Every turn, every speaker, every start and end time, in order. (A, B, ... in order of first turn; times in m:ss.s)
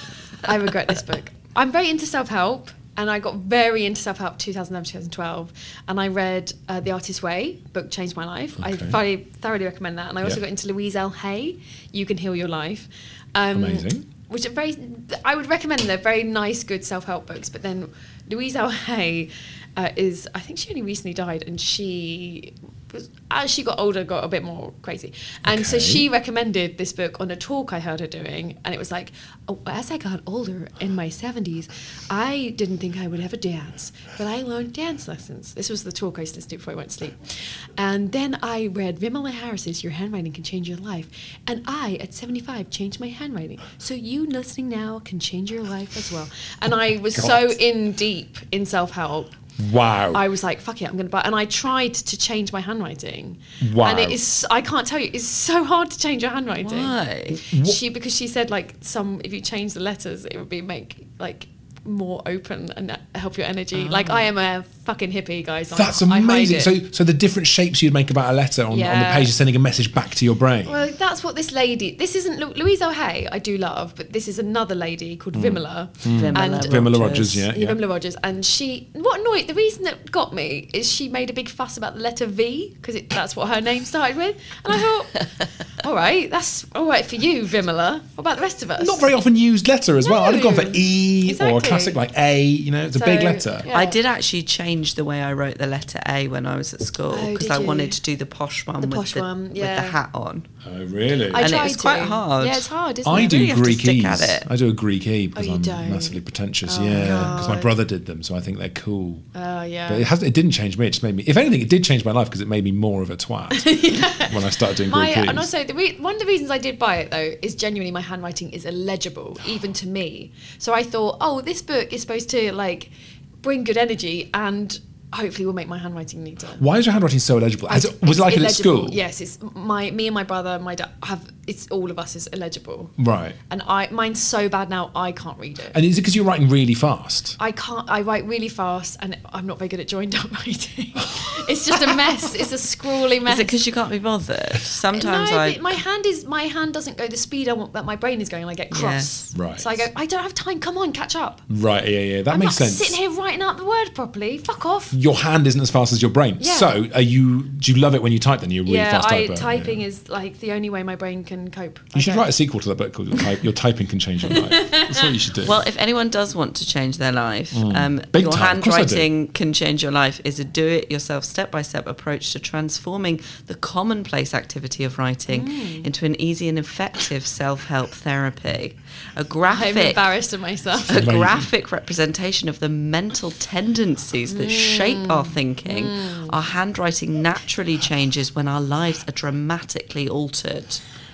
0:00.4-0:49.4 A
0:08.6-0:09.0 B
0:13.5-0:14.1 B
0:25.4-0:26.0 B
0:47.1-0:47.6 B
0:49.6-0:50.2 B
0:50.1-0:57.0 A
0:53.6-0:54.2 B
0:56.6-0:57.4 C
0:57.3-0:57.8 B
0:57.6-1:06.7 A
1:03.7-1:04.3 C
1:05.7-1:10.8 B
1:08.7-1:09.3 A
1:10.6-1:29.0 A
1:15.3-1:17.8 B
1:16.1-1:17.4 C
1:28.8-1:33.7 B
1:30.0-1:32.0 A
1:32.9-1:34.0 A
1:33.7-1:40.5 C
1:37.1-1:38.0 A
1:38.8-1:40.0 A
1:40.6-1:41.5 B
1:41.3-1:43.5 A
1:41.3-1:44.5 C
1:43.0-1:49.3 B
1:45.4-1:47.7 A
1:49.3-1:50.1 A
1:49.9-1:55.5 B
1:53.6-1:54.3 A
1:54.8-2:06.6 A
2:06.6-2:09.0 B
2:07.7-2:13.0 A
2:13.0-2:13.4 B
2:13.5-2:15.8 A
2:15.7-2:17.4 B
2:17.4-2:23.6 A
2:21.0-2:21.8 B
2:23.3-2:25.8 C
2:25.0-2:31.4 A
2:28.7-2:29.2 C
2:29.4-2:29.9 B
2:31.5-2:33.0 B
2:32.3-2:35.0 A
2:34.9-2:39.8 B
2:36.4-2:36.7 A
2:38.7-2:42.3 A
2:41.9-2:45.6 B
2:44.3-2:45.1 A
2:45.4-3:00.1 C
2:47.5-2:49.1 B
2:55.3-2:55.9 A
2:59.5-3:00.9 A
3:00.9-3:10.8 C
3:00.9-3:01.5 B
3:04.3-3:06.4 A